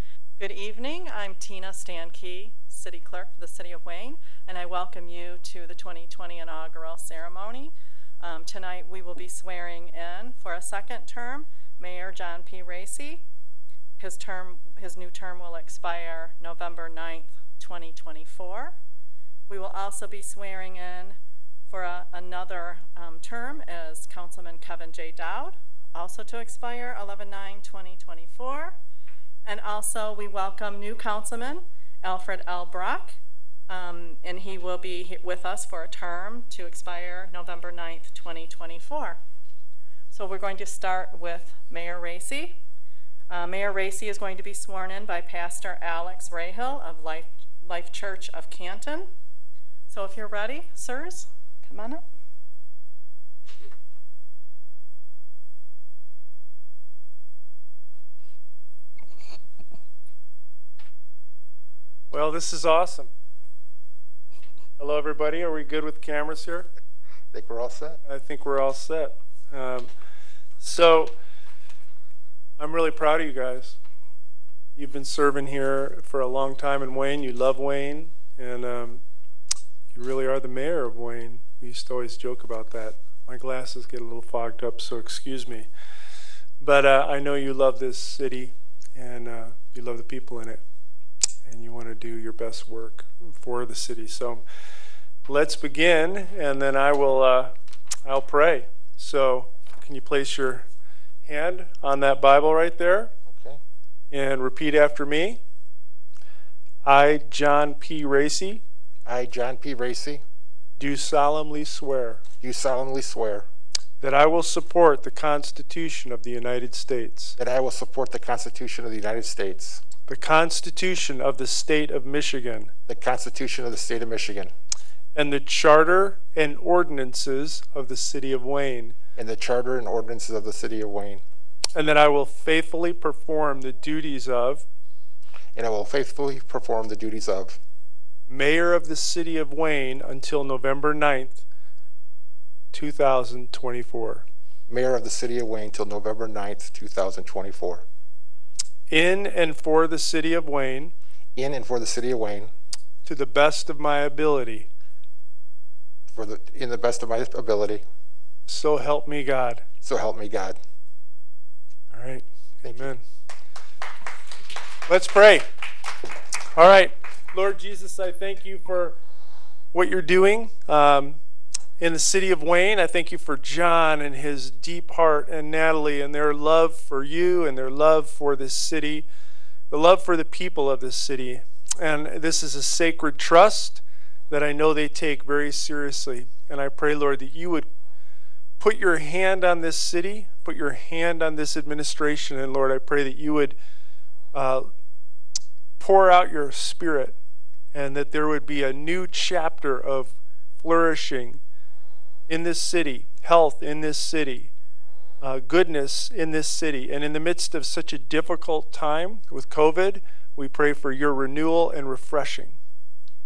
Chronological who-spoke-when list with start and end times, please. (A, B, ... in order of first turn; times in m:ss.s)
0:00.4-0:13.2 A
0:14.0-0:18.8 A
0:19.5-0:21.2 A
0:21.7-0:28.8 A
0:29.4-0:33.2 A
0:33.7-0:39.2 A
0:40.1-0:42.6 A
0:43.3-0:49.1 A
0:49.9-0:52.0 A
1:02.1-1:03.1 B
1:04.8-1:06.7 B
1:07.3-1:08.0 C
1:08.1-1:09.9 B
1:10.6-1:11.1 B
1:12.6-1:13.8 B
1:14.8-1:19.0 B
1:19.9-1:25.7 B
1:26.6-1:30.6 B
1:31.4-1:34.4 B
1:35.3-1:37.5 B
1:38.0-1:40.7 B
1:41.2-1:43.1 B
1:43.3-1:43.6 C
1:44.1-1:45.4 B
1:46.8-1:48.6 B
1:49.1-1:50.2 C
1:50.8-1:52.2 B
1:52.4-1:53.5 C
1:54.0-1:57.3 B
1:57.4-1:59.8 C
2:00.1-2:02.7 B
2:02.9-2:04.5 C
2:05.1-2:08.9 B
2:09.2-2:11.2 C
2:11.8-2:14.6 B
2:15.6-2:17.6 C
2:18.3-2:21.4 B
2:22.7-2:24.2 B
2:24.7-2:27.8 C
2:28.9-2:30.9 B
2:31.4-2:32.5 C
2:33.0-2:34.7 B
2:36.1-2:37.8 C
2:38.5-2:39.6 B
2:39.8-2:40.6 C
2:41.9-2:43.0 B
2:42.6-2:42.9 C
2:44.9-2:45.4 B
2:46.5-2:49.0 B
2:49.7-2:51.2 B
2:51.8-2:59.1 B
2:59.7-3:07.7 B
3:08.6-3:13.6 B
3:14.3-3:14.7 B
3:15.8-3:17.2 B
3:17.7-3:21.4 B
3:22.3-3:24.5 B
3:25.2-3:32.6 B